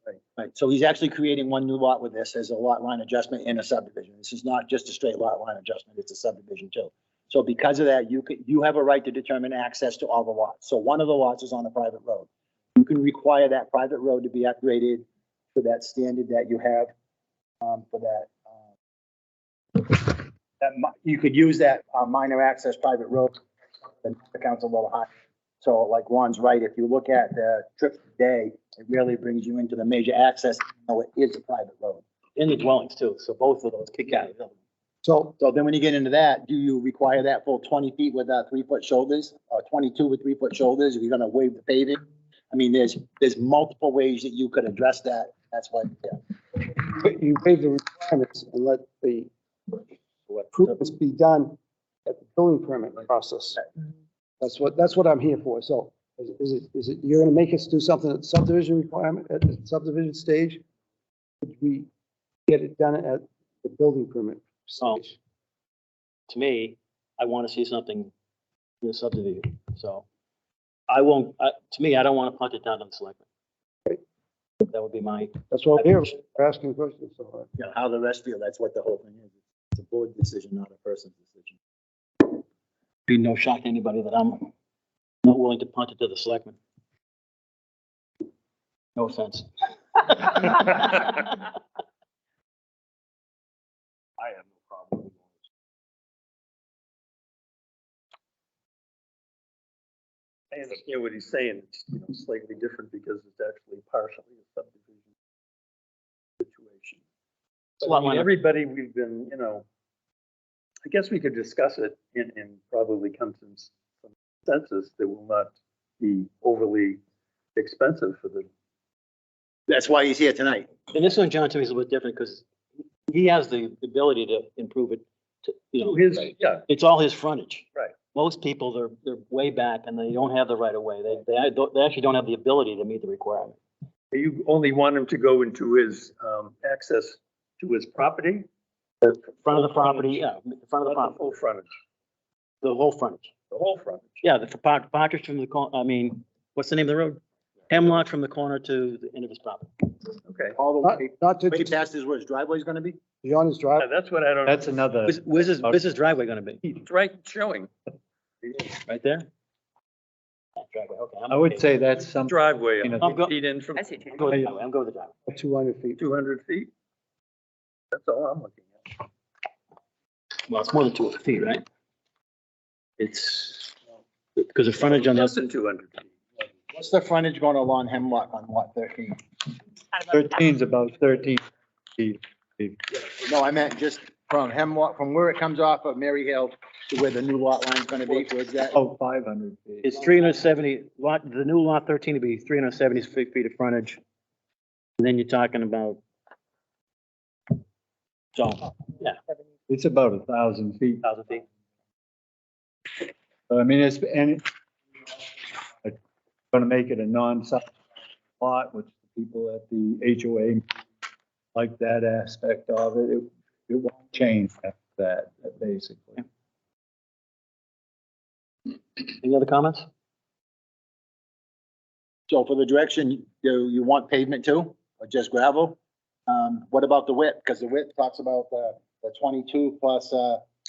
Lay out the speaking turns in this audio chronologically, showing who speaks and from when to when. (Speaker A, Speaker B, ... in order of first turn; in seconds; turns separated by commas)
Speaker A: 0.3-16.9, Speaker A: 17.6-18.3, Speaker A: 19.8-23.4, Speaker A: 24.0-25.1, Speaker A: 25.6-32.0, Speaker B: 32.4-34.5, Speaker C: 35.0-35.4, Speaker A: 35.4-46.2, Speaker C: 46.7-49.3, Speaker C: 50.5-53.6, Speaker C: 54.4-60.6, Speaker C: 61.4-61.9, Speaker C: 62.5-65.2, Speaker B: 66.3-68.1, Speaker B: 68.8-70.0, Speaker B: 70.9-73.2, Speaker B: 74.7-76.1, Speaker C: 75.5-77.5, Speaker A: 77.6-81.5, Speaker B: 83.1-84.5, Speaker B: 85.2-86.6, Speaker B: 89.0-91.3, Speaker D: 94.2-95.1, Speaker D: 100.5-105.1, Speaker D: 106.4-107.0, Speaker D: 107.8-109.6, Speaker B: 107.8-108.3, Speaker D: 110.8-113.8, Speaker D: 114.5-117.0, Speaker D: 117.5-118.5, Speaker A: 119.7-120.7, Speaker B: 120.9-122.4, Speaker B: 123.1-133.6, Speaker D: 125.8-126.6, Speaker D: 134.1-138.4, Speaker B: 139.0-141.2, Speaker D: 139.5-140.2, Speaker D: 140.8-141.7, Speaker B: 142.6-143.3, Speaker D: 143.5-144.2, Speaker B: 144.2-149.7, Speaker D: 150.2-150.6, Speaker A: 150.6-153.0, Speaker C: 150.8-151.8, Speaker C: 153.2-153.9, Speaker D: 153.8-154.7, Speaker E: 154.5-155.8, Speaker B: 155.1-156.6, Speaker D: 156.8-157.7, Speaker B: 158.8-159.3, Speaker B: 160.6-161.7, Speaker E: 161.3-163.1, Speaker D: 162.3-164.4, Speaker B: 163.0-163.3, Speaker B: 164.1-165.1, Speaker C: 165.2-166.0, Speaker D: 166.0-166.7, Speaker D: 167.9-169.0, Speaker B: 170.4-171.6, Speaker B: 173.0-173.7, Speaker B: 174.3-175.4, Speaker D: 174.8-176.4, Speaker A: 176.7-179.2, Speaker E: 180.1-181.4, Speaker E: 182.0-182.8, Speaker A: 183.0-188.7, Speaker E: 188.7-189.9, Speaker B: 189.8-194.0, Speaker B: 195.0-196.0, Speaker B: 198.3-199.2, Speaker E: 199.7-201.0, Speaker B: 201.0-201.4, Speaker E: 203.5-204.4, Speaker E: 206.5-207.7, Speaker E: 208.4-210.6, Speaker E: 211.5-216.2, Speaker B: 219.0-219.9, Speaker A: 222.3-230.4